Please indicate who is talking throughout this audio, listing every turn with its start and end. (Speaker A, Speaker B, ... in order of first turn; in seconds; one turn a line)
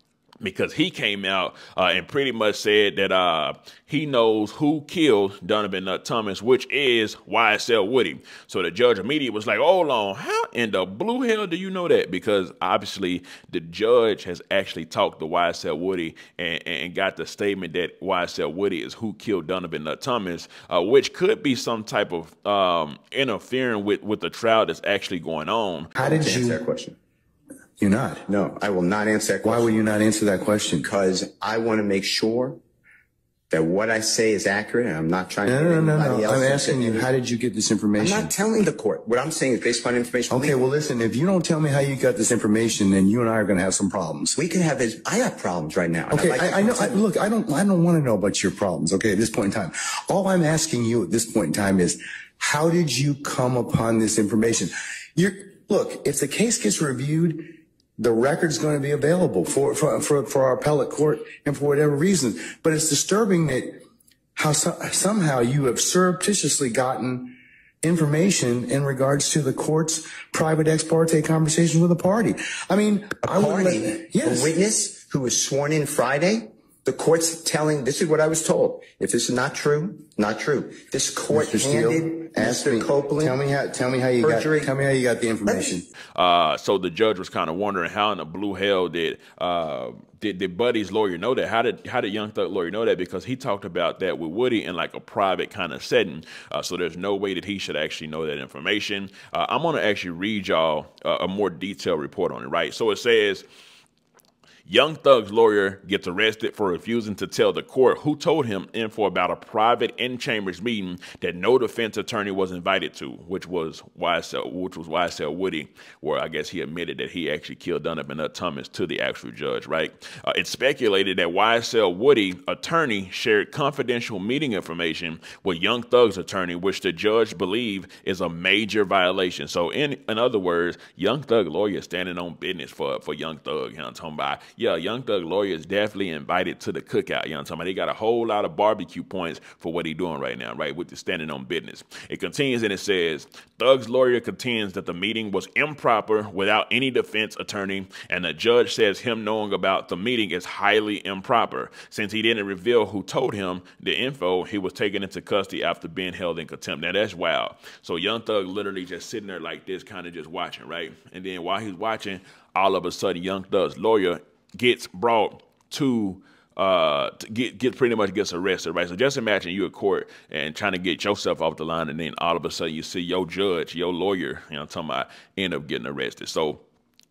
Speaker A: 0.4-25.9
Speaker B: 26.0-26.6
Speaker C: 26.0-27.0
Speaker B: 27.8-28.3
Speaker C: 28.3-29.8
Speaker B: 29.4-30.9
Speaker C: 30.8-32.6
Speaker C: 33.5-37.1
Speaker B: 35.4-38.3
Speaker C: 38.0-40.5
Speaker B: 40.3-44.4
Speaker C: 44.3-47.0
Speaker B: 46.1-63.8
Speaker B: 64.3-74.5
Speaker C: 73.3-83.4
Speaker B: 81.3-85.9
Speaker C: 84.2-84.7
Speaker C: 85.5-85.7
Speaker A: 86.1-103.5
Speaker A: 104.7-176.6